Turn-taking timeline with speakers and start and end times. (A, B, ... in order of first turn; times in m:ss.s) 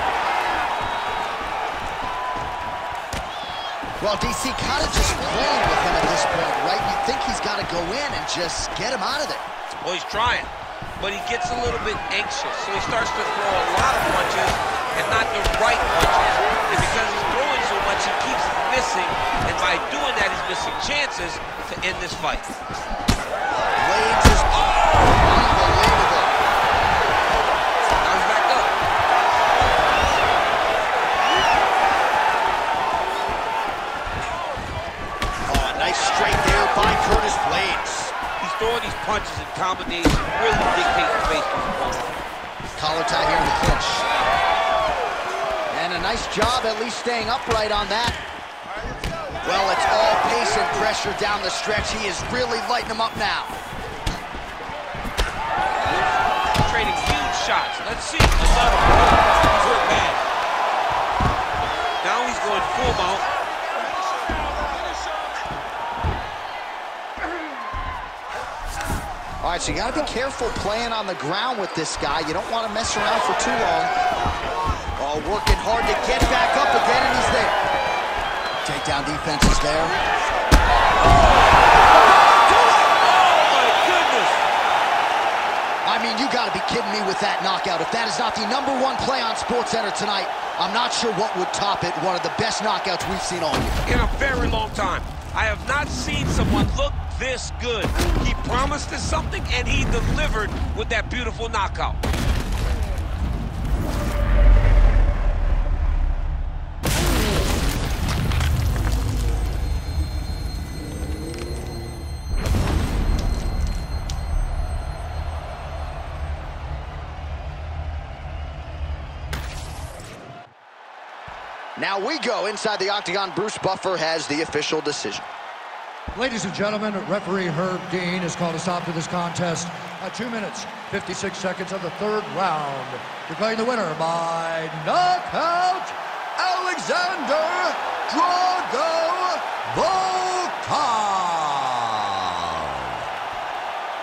0:04.0-0:09.5 A
0:09.7-0:22.5 B
0:23.8-0:26.3 A
0:28.0-0:28.7 B
0:35.5-0:38.2 A
0:38.4-0:42.2 B
0:42.8-0:44.1 A
0:45.7-0:48.2 A
0:49.4-0:53.6 A
0:56.5-1:00.2 B
1:02.0-1:03.3 B
1:09.4-1:13.9 A
1:15.0-1:17.6 A
1:18.6-1:20.0 A
1:21.0-1:24.4 B
1:25.8-1:33.8 A
1:33.8-1:42.0 B
2:01.8-2:05.3 A
2:06.1-2:23.0 C